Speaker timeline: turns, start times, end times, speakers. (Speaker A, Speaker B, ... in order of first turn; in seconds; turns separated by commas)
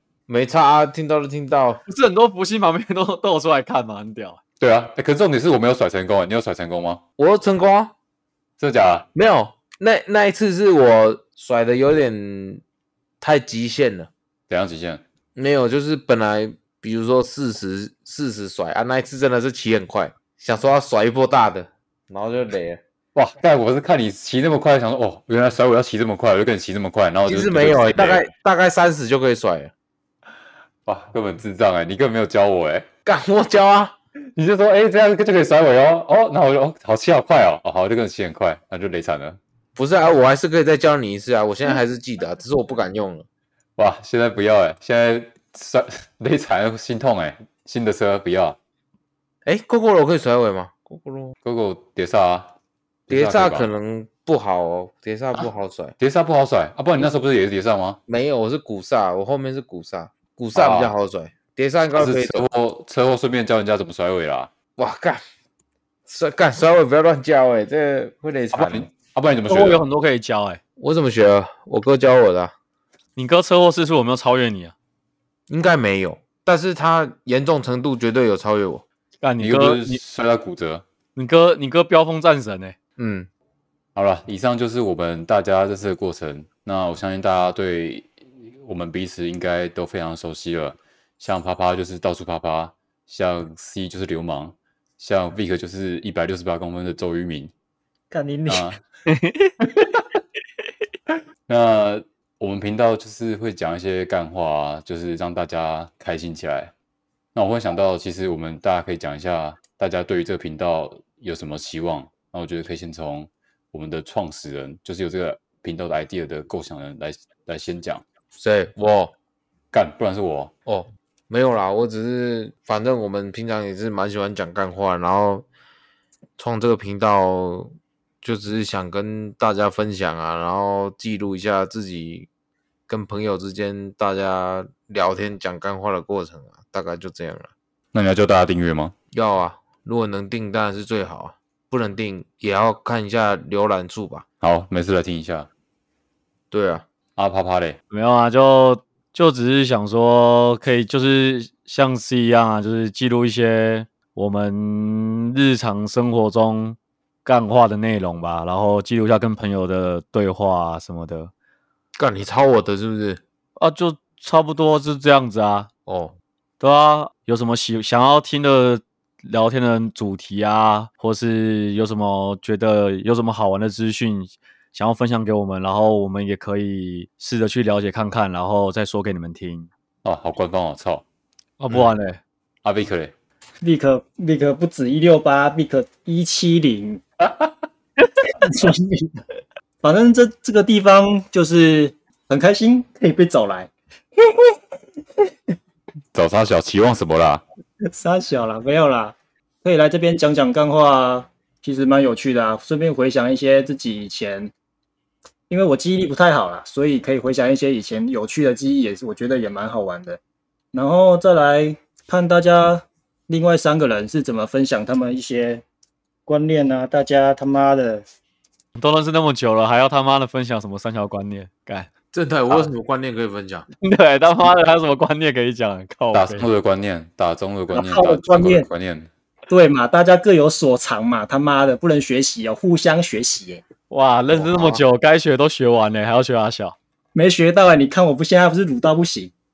Speaker A: 0.3-1.8, Speaker B: 1.9-4.4, Speaker C: 4.6-7.0, Speaker A: 7.2-7.9, Speaker C: 8.6-9.1, Speaker A: 9.2-12.6, Speaker A: 13.2-14.1, Speaker C: 14.5-15.0, Speaker A: 15.3-22.8, Speaker C: 23.1-28.3, Speaker A: 27.3-29.7, Speaker C: 30.9-32.9, Speaker A: 33.0-34.0, Speaker C: 34.4-39.4, Speaker A: 39.8-43.3, Speaker C: 43.8-48.6, Speaker A: 49.5-51.4, Speaker C: 51.4-52.5, Speaker C: 53.1-53.7, Speaker A: 53.1-56.0, Speaker C: 56.0-58.0, Speaker A: 58.1-62.5, Speaker C: 60.5-60.9, Speaker C: 62.0-64.5, Speaker A: 64.8-65.2, Speaker A: 66.1-68.9, Speaker C: 68.5-69.8, Speaker B: 69.5-70.6, Speaker A: 70.8-72.5, Speaker B: 73.2-74.7, Speaker A: 75.5-78.8, Speaker B: 79.2-80.0, Speaker C: 79.4-80.8, Speaker B: 81.2-82.8, Speaker A: 83.0-83.3, Speaker C: 84.0-97.5, Speaker D: 98.1-98.7, Speaker C: 98.5-98.8, Speaker B: 99.1-99.7, Speaker C: 101.5-106.7, Speaker C: 107.3-118.0, Speaker A: 118.4-119.1, Speaker C: 119.7-120.5, Speaker A: 120.7-125.5, Speaker A: 126.4-132.3, Speaker A: 132.9-137.5, Speaker C: 137.9-138.9, Speaker A: 139.1-144.2, Speaker C: 144.4-145.5, Speaker A: 146.5-146.9, Speaker C: 147.2-147.8, Speaker B: 147.9-161.3, Speaker A: 162.0-163.2, Speaker B: 163.6-165.7, Speaker A: 165.9-166.1, Speaker B: 166.6-179.7, Speaker C: 180.0-181.0, Speaker B: 181.6-182.2, Speaker C: 182.6-183.1, Speaker D: 183.6-187.0, Speaker D: 188.3-189.2, Speaker D: 189.8-193.7, Speaker D: 194.2-194.5, Speaker C: 196.1-197.4, Speaker D: 197.9-204.5, Speaker D: 205.5-210.2, Speaker D: 210.7-215.6, Speaker D: 216.3-218.0, Speaker B: 218.8-221.9, Speaker A: 222.1-223.7, Speaker B: 223.8-226.5, Speaker C: 226.1-229.1, Speaker D: 227.7-228.7, Speaker D: 229.5-233.6, Speaker B: 233.9-236.8, Speaker D: 237.2-239.3